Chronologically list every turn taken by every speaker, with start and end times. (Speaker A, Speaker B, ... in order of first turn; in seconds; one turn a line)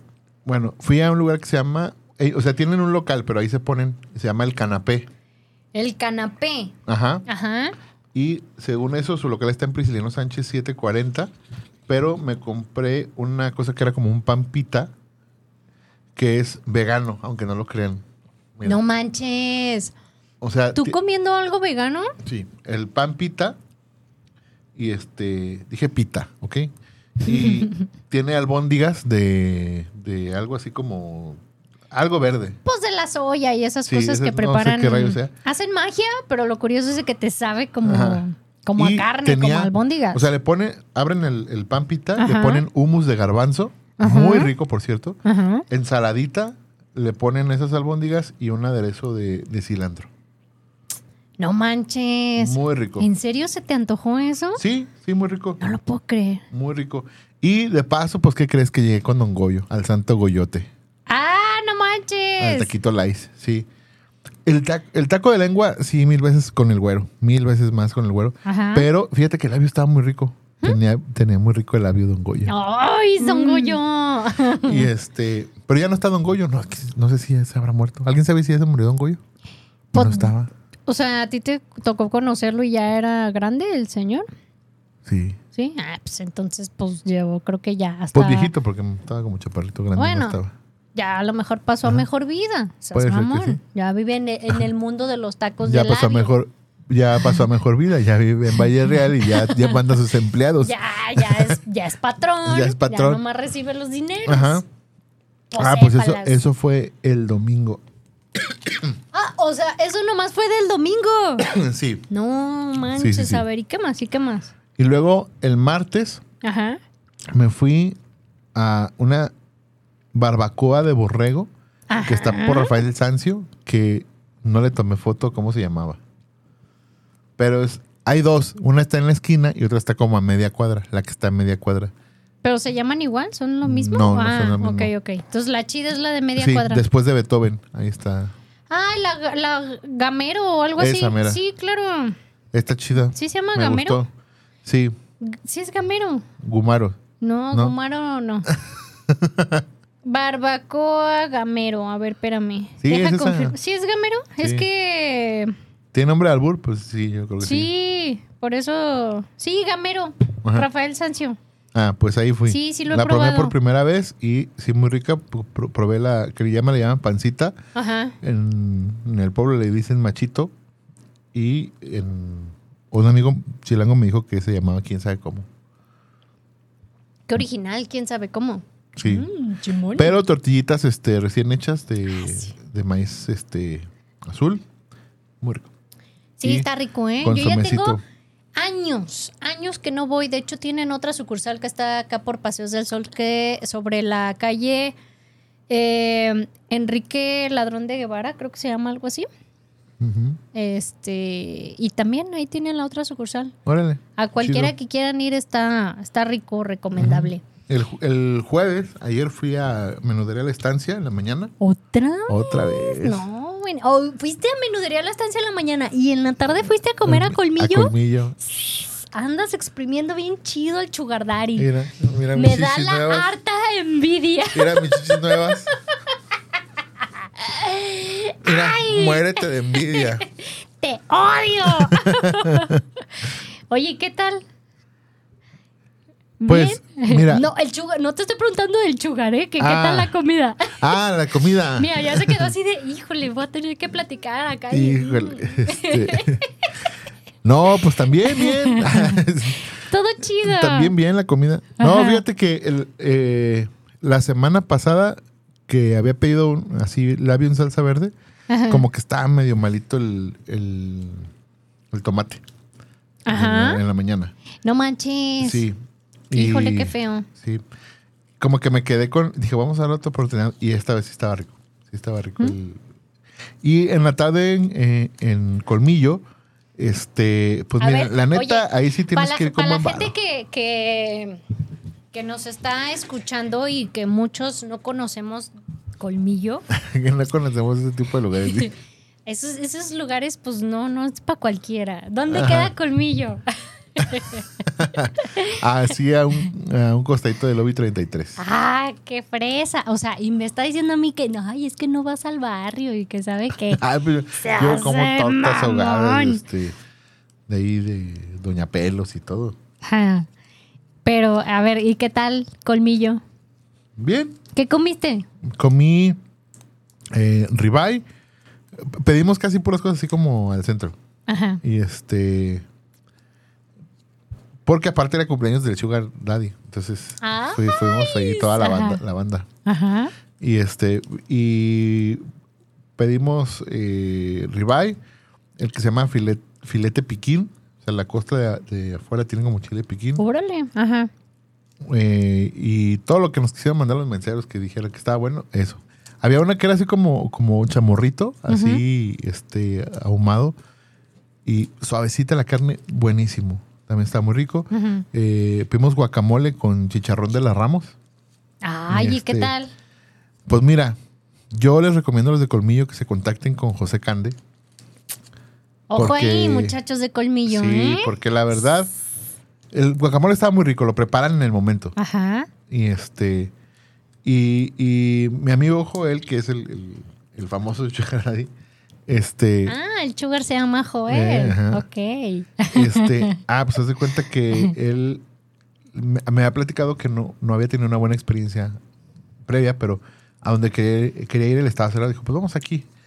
Speaker A: 0.5-5.1
Speaker B: 5.7-6.7
Speaker A: 6.9-7.2
Speaker B: 7.3-7.7
Speaker A: 8.1-11.3
Speaker A: 11.9-14.9
Speaker A: 16.2-18.0
Speaker A: 18.6-18.8
Speaker B: 18.6-19.9
Speaker A: 20.4-21.0
Speaker B: 20.8-22.1
Speaker A: 22.2-23.6
Speaker A: 24.8-31.4
Speaker B: 27.3-27.8
Speaker A: 31.9-32.6
Speaker B: 32.6-40.2
Speaker A: 33.9-35.3
Speaker A: 37.8-38.2
Speaker A: 38.8-50.1
Speaker B: 42.2-42.6
Speaker B: 44.0-44.5
Speaker B: 45.2-45.6
Speaker B: 51.4-54.6
Speaker A: 52.4-53.1
Speaker A: 54.6-55.6
Speaker B: 55.6-56.4
Speaker A: 56.5-60.7
Speaker B: 61.1-62.7
Speaker A: 62.4-63.7
Speaker A: 64.5-72.5
Speaker B: 68.5-68.9
Speaker B: 72.5-74.9
Speaker A: 73.2-73.8
Speaker A: 74.6-79.2
Speaker B: 79.9-80.3
Speaker A: 79.9-80.5
Speaker B: 80.9-84.3
Speaker A: 85.0-85.4
Speaker B: 85.5-88.5
Speaker A: 88.1-90.5
Speaker B: 90.0-90.4
Speaker B: 91.0-96.3
Speaker A: 92.9-93.6
Speaker A: 95.6-101.6
Speaker B: 99.4-99.7
Speaker B: 100.6-104.6
Speaker A: 102.5-103.2
Speaker A: 104.3-104.7
Speaker B: 105.5-106.4
Speaker A: 105.6-107.8
Speaker B: 109.1-111.5
Speaker A: 111.4-112.0
Speaker B: 112.1-114.5
Speaker A: 113.0-113.4
Speaker A: 114.8-116.2
Speaker B: 116.4-116.8
Speaker A: 117.3-118.0
Speaker A: 118.5-119.3
Speaker A: 120.1-121.5
Speaker B: 121.9-122.8
Speaker A: 122.0-126.0
Speaker A: 127.4-131.9
Speaker B: 132.4-136.8
Speaker A: 133.6-134.9
Speaker A: 136.4-138.3
Speaker B: 138.7-142.2
Speaker A: 140.8-141.4
Speaker A: 142.5-144.1
Speaker B: 143.1-144.0
Speaker A: 144.7-145.0
Speaker B: 145.2-146.3
Speaker A: 146.4-147.0
Speaker B: 147.2-148.5
Speaker A: 149.1-149.7
Speaker B: 150.1-155.5
Speaker A: 152.8-153.6
Speaker A: 154.4-154.7
Speaker A: 155.9-157.7
Speaker B: 157.4-161.4
Speaker A: 161.7-167.6
Speaker B: 162.5-163.6
Speaker B: 167.8-168.2
Speaker A: 168.2-170.5
Speaker A: 171.3-175.5
Speaker B: 177.3-180.2
Speaker A: 179.0-179.3
Speaker A: 180.0-184.7
Speaker A: 185.4-185.7
Speaker B: 186.4-188.0
Speaker A: 186.4-186.7
Speaker A: 187.2-188.0
Speaker B: 188.6-194.9
Speaker B: 195.7-199.3
Speaker A: 200.0-200.4
Speaker B: 200.5-203.5
Speaker A: 203.7-204.7
Speaker B: 204.2-207.4
Speaker A: 207.0-211.5
Speaker B: 211.6-221.7
Speaker A: 212.3-213.2
Speaker A: 217.1-218.4
Speaker A: 221.6-223.3
Speaker B: 222.3-225.5
Speaker A: 224.5-225.7
Speaker B: 227.4-232.8
Speaker A: 228.4-230.2
Speaker A: 231.7-232.8
Speaker B: 233.7-234.4
Speaker B: 236.4-240.8
Speaker A: 236.5-237.5
Speaker A: 239.6-240.1
Speaker A: 240.8-242.5
Speaker B: 241.8-246.4
Speaker A: 244.7-246.4
Speaker A: 247.4-249.7
Speaker B: 248.3-249.2
Speaker B: 249.9-250.9
Speaker A: 250.4-258.1
Speaker B: 251.8-252.2
Speaker B: 258.5-258.8
Speaker A: 258.7-261.3
Speaker A: 261.9-262.4
Speaker B: 263.3-263.8
Speaker A: 263.3-264.3
Speaker B: 264.6-265.6
Speaker A: 265.4-265.8
Speaker A: 266.3-267.6
Speaker B: 266.3-267.3
Speaker A: 268.4-272.8
Speaker A: 273.6-276.2
Speaker A: 276.8-280.1
Speaker B: 277.8-281.4
Speaker B: 282.1-286.7
Speaker A: 286.7-288.7
Speaker B: 289.3-293.4
Speaker A: 292.3-292.7
Speaker B: 294.0-294.6
Speaker A: 294.7-298.4
Speaker B: 295.2-295.6
Speaker B: 298.4-303.8
Speaker A: 303.7-306.8
Speaker B: 304.4-306.4
Speaker A: 307.5-309.6
Speaker B: 309.8-310.3
Speaker B: 311.1-313.2
Speaker A: 314.0-314.4
Speaker B: 314.6-315.3
Speaker A: 315.5-316.2
Speaker A: 317.1-318.1
Speaker A: 318.8-321.0
Speaker B: 321.3-321.6
Speaker A: 321.6-322.6
Speaker A: 324.7-329.5
Speaker B: 327.2-329.0
Speaker B: 329.6-330.1
Speaker A: 330.4-332.2
Speaker A: 333.0-335.0
Speaker A: 335.6-340.2
Speaker B: 340.2-341.1
Speaker A: 341.8-350.6
Speaker B: 348.5-348.8
Speaker A: 351.4-357.9
Speaker B: 354.7-355.1
Speaker B: 358.6-359.7
Speaker A: 358.9-359.5
Speaker A: 360.5-361.0
Speaker A: 361.5-364.4
Speaker B: 365.9-368.1
Speaker A: 365.9-366.8
Speaker A: 367.5-368.9
Speaker A: 369.7-371.9
Speaker B: 372.0-372.5
Speaker A: 372.7-373.5
Speaker A: 374.2-378.5
Speaker A: 379.1-379.8
Speaker B: 379.7-383.4
Speaker A: 381.1-381.9
Speaker A: 382.7-385.2
Speaker A: 385.9-388.8
Speaker A: 389.4-392.9